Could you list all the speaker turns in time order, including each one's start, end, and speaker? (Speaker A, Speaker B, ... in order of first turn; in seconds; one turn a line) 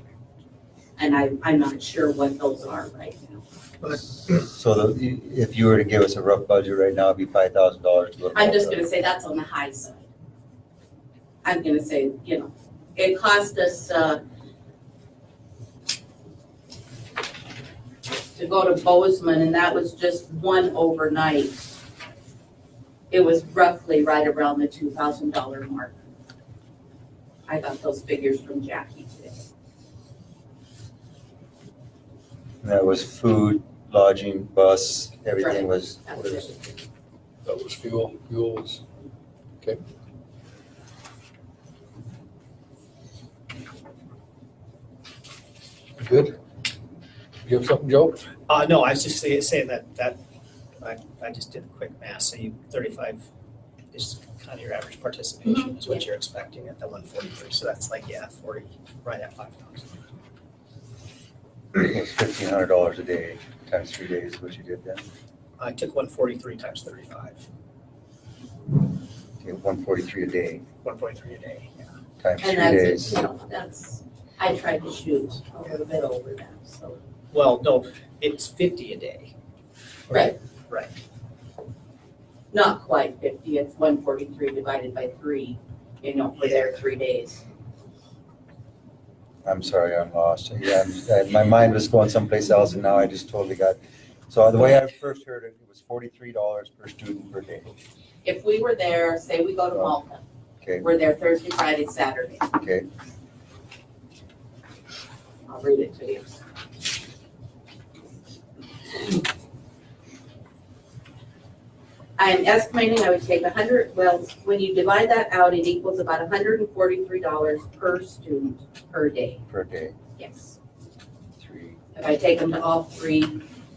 Speaker A: 1.0-3.4
Speaker B: 4.2-8.8
Speaker A: 8.3-10.1
Speaker A: 11.4-14.2
Speaker A: 18.3-21.6
Speaker A: 23.1-25.9
Speaker A: 27.5-29.4
Speaker B: 32.6-36.7
Speaker A: 35.4-36.5
Speaker C: 37.4-38.8
Speaker C: 46.0-46.4
Speaker C: 47.4-48.3
Speaker D: 48.5-50.2
Speaker D: 50.8-53.2
Speaker D: 53.9-60.0
Speaker B: 61.7-65.0
Speaker D: 65.6-67.4
Speaker B: 69.4-70.6
Speaker D: 70.8-71.9
Speaker B: 72.2-73.2
Speaker A: 72.4-77.0
Speaker D: 77.3-79.3
Speaker A: 80.1-80.3
Speaker D: 80.1-80.9
Speaker A: 82.5-87.4
Speaker B: 89.4-97.8
Speaker A: 98.2-100.2
Speaker A: 100.8-102.5
Speaker B: 102.5-102.8
Speaker A: 105.5-106.4
Speaker A: 112.2-119.4
Speaker B: 119.5-119.9
Speaker A: 120.2-120.5
Speaker B: 121.4-121.8
Speaker A: 121.9-123.4